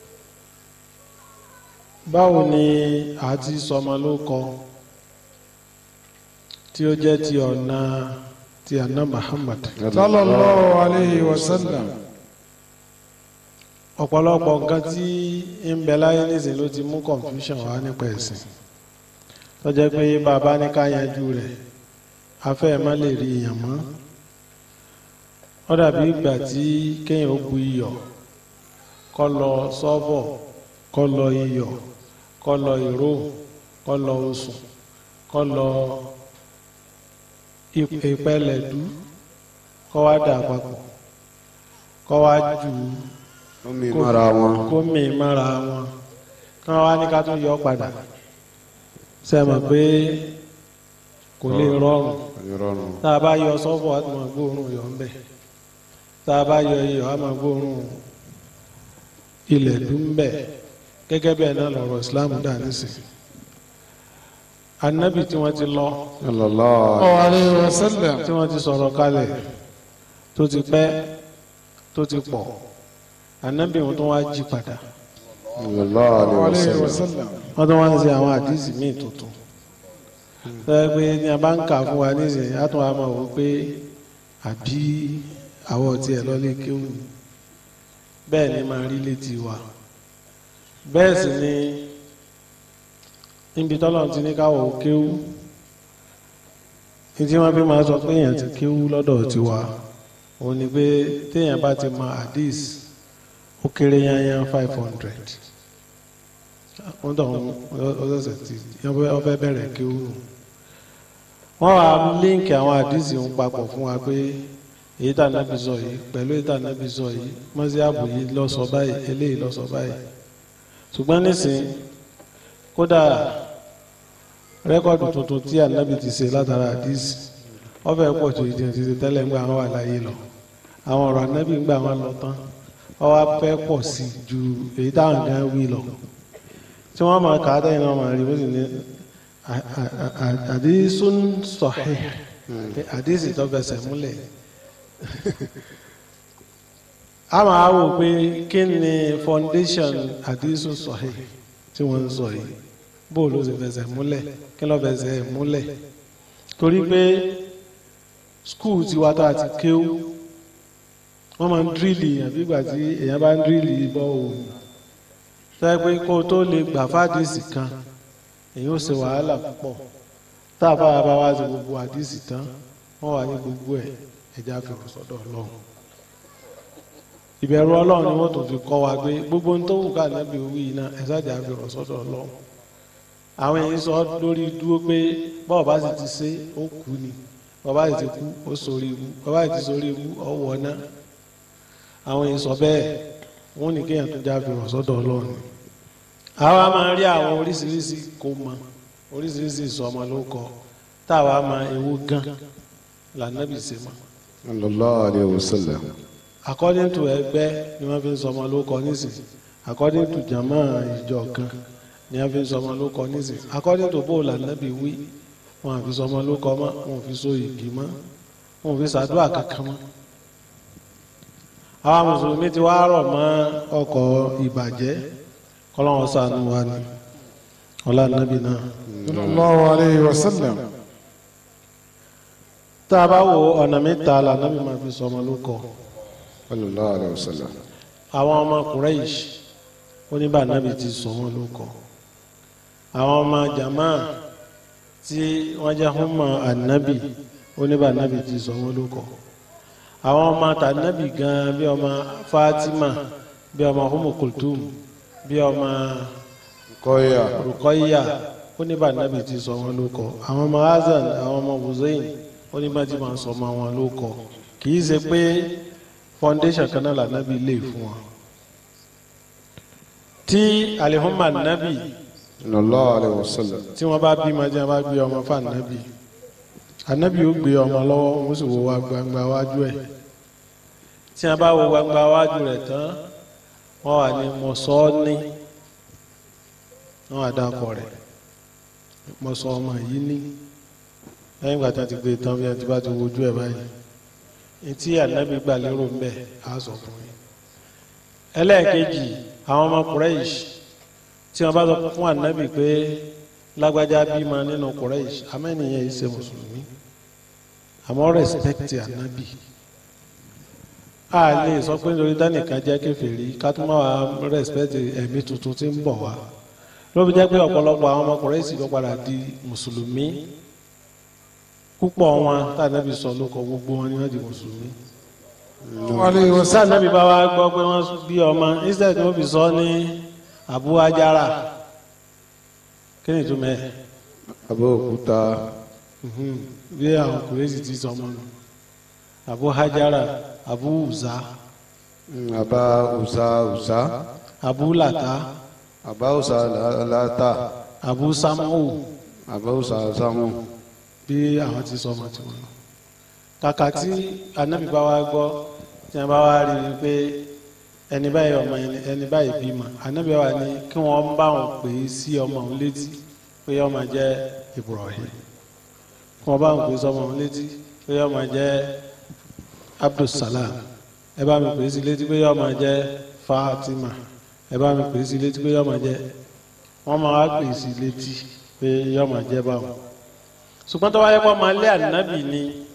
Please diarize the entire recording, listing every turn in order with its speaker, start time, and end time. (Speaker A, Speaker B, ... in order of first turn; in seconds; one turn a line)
Speaker A: 2.1-4.5
Speaker A: 6.7-9.7
Speaker B: 9.8-11.9
Speaker C: 9.9-11.9
Speaker A: 14.0-18.4
Speaker A: 19.6-21.5
Speaker A: 22.4-23.8
Speaker A: 25.7-28.0
Speaker A: 29.1-30.4
Speaker A: 30.9-31.8
Speaker A: 32.4-33.3
Speaker A: 33.9-34.6
Speaker A: 35.3-36.0
Speaker A: 37.8-38.9
Speaker A: 39.9-40.8
Speaker A: 42.1-43.1
Speaker B: 43.6-44.7
Speaker A: 43.9-45.9
Speaker A: 46.6-47.9
Speaker A: 49.2-50.3
Speaker A: 51.4-52.2
Speaker B: 51.5-51.8
Speaker B: 52.4-53.0
Speaker A: 53.0-55.1
Speaker A: 56.2-58.0
Speaker A: 59.5-60.4
Speaker A: 61.1-63.0
Speaker A: 64.8-66.0
Speaker B: 66.2-67.3
Speaker C: 67.0-68.2
Speaker A: 68.2-69.4
Speaker A: 70.3-71.0
Speaker A: 71.9-72.5
Speaker A: 73.4-74.8
Speaker B: 75.6-77.0
Speaker C: 76.2-77.4
Speaker A: 77.6-79.3
Speaker A: 80.6-83.7
Speaker A: 84.4-87.1
Speaker A: 88.3-89.6
Speaker A: 90.9-91.9
Speaker A: 93.6-95.2
Speaker A: 97.2-99.7
Speaker A: 100.4-102.8
Speaker A: 103.6-105.4
Speaker A: 106.8-110.2
Speaker A: 111.6-114.5
Speaker A: 115.0-120.0
Speaker A: 120.9-121.8
Speaker A: 122.8-123.3
Speaker A: 124.7-127.2
Speaker A: 127.8-130.2
Speaker A: 130.9-132.4
Speaker A: 133.0-135.9
Speaker A: 136.9-138.9
Speaker A: 139.5-142.2
Speaker B: 142.5-142.8
Speaker A: 142.7-144.2
Speaker A: 145.1-145.5
Speaker A: 147.3-152.6
Speaker A: 153.1-155.7
Speaker A: 156.6-157.3
Speaker A: 158.4-160.1
Speaker A: 161.4-164.5
Speaker A: 165.6-167.7
Speaker A: 168.6-169.8
Speaker A: 170.6-172.5
Speaker A: 173.0-175.5
Speaker A: 177.4-182.3
Speaker A: 183.4-190.8
Speaker A: 192.1-193.0
Speaker A: 193.6-195.4
Speaker A: 196.4-198.6
Speaker A: 199.1-200.5
Speaker A: 201.1-202.3
Speaker A: 203.2-204.0
Speaker B: 204.5-205.9
Speaker A: 206.5-211.5
Speaker A: 212.1-215.0
Speaker A: 215.6-217.9
Speaker A: 218.6-219.8
Speaker A: 221.8-225.0
Speaker A: 225.7-226.8
Speaker A: 227.9-228.7
Speaker B: 228.9-229.4
Speaker C: 229.1-230.6
Speaker A: 232.9-235.6
Speaker B: 236.5-237.5
Speaker A: 238.1-239.3
Speaker A: 240.1-241.7
Speaker A: 242.9-244.1
Speaker A: 245.0-249.1
Speaker A: 250.1-253.0
Speaker A: 253.5-254.7
Speaker A: 255.2-256.1
Speaker B: 256.7-257.4
Speaker A: 257.3-265.5
Speaker A: 266.2-268.0
Speaker A: 270.3-271.9
Speaker B: 272.4-273.6
Speaker A: 273.8-275.9
Speaker A: 276.9-279.8
Speaker A: 281.2-283.0
Speaker A: 283.8-285.3
Speaker A: 287.1-287.9
Speaker A: 289.2-290.3
Speaker A: 291.4-293.7
Speaker A: 294.6-297.1
Speaker A: 298.4-300.5
Speaker A: 301.3-303.0
Speaker A: 303.6-306.7
Speaker A: 307.9-309.4
Speaker A: 311.1-316.2
Speaker A: 316.9-320.2
Speaker A: 321.8-324.8
Speaker B: 325.6-326.4
Speaker C: 325.9-326.6
Speaker A: 326.3-331.4
Speaker A: 333.0-333.7
Speaker B: 334.5-335.5
Speaker A: 336.0-338.3
Speaker A: 339.3-341.2
Speaker B: 342.1-343.9
Speaker A: 344.4-345.2
Speaker B: 345.9-347.4
Speaker A: 347.8-348.9
Speaker B: 349.3-350.4
Speaker A: 351.1-352.5
Speaker A: 353.4-355.4
Speaker A: 355.9-357.2
Speaker A: 357.9-365.2
Speaker A: 366.2-368.7
Speaker A: 369.8-370.6
Speaker A: 371.2-374.0
Speaker A: 374.5-376.0
Speaker A: 376.9-379.7
Speaker A: 380.7-382.6